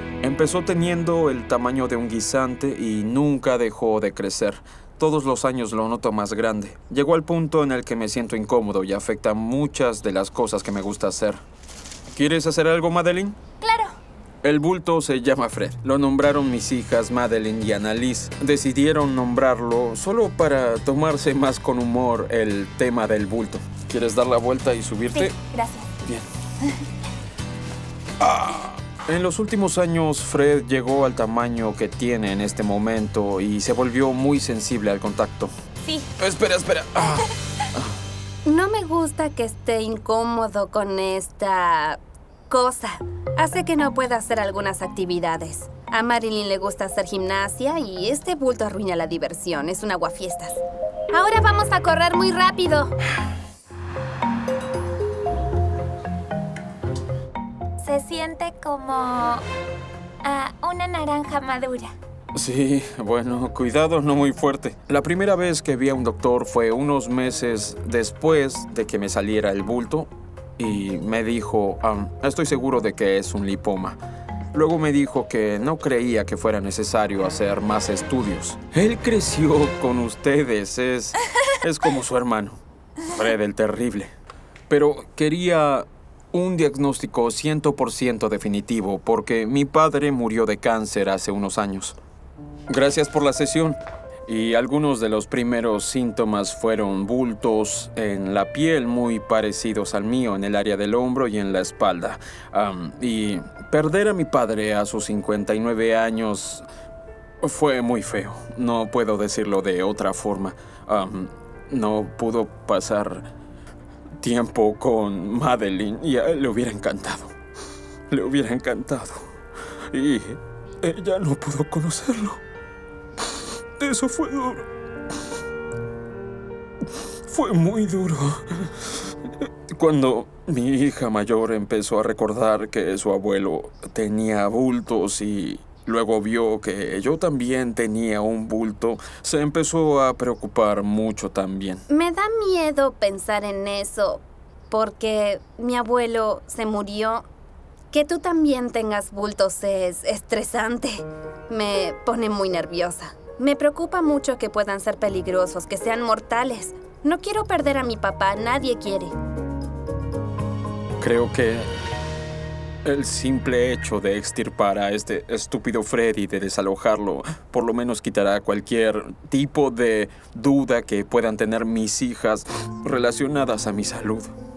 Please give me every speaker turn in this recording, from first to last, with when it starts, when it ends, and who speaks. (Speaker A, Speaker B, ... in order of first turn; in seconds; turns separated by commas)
Speaker A: 0.2-11.4, Speaker A: 12.1-13.4, Speaker B: 13.6-13.9, Speaker A: 14.4-25.4, Speaker B: 25.2-25.9, Speaker A: 26.0-26.3, Speaker A: 28.2-35.5, Speaker B: 35.8-36.1, Speaker A: 36.2-37.9, Speaker C: 38.5-50.6, Speaker C: 51.1-52.9, Speaker B: 57.8-59.4, Speaker B: 60.2-62.0, Speaker A: 62.3-74.0, Speaker A: 74.5-84.1, Speaker A: 84.7-92.0, Speaker A: 92.7-106.7, Speaker A: 107.4-113.3, Speaker A: 114.2-117.3, Speaker A: 118.1-119.3, Speaker A: 119.9-122.4, Speaker A: 123.8-124.7, Speaker A: 127.3-141.8, Speaker C: 141.9-147.3, Speaker C: 147.9-159.2, Speaker A: 161.0-161.7, Speaker A: 162.8-174.3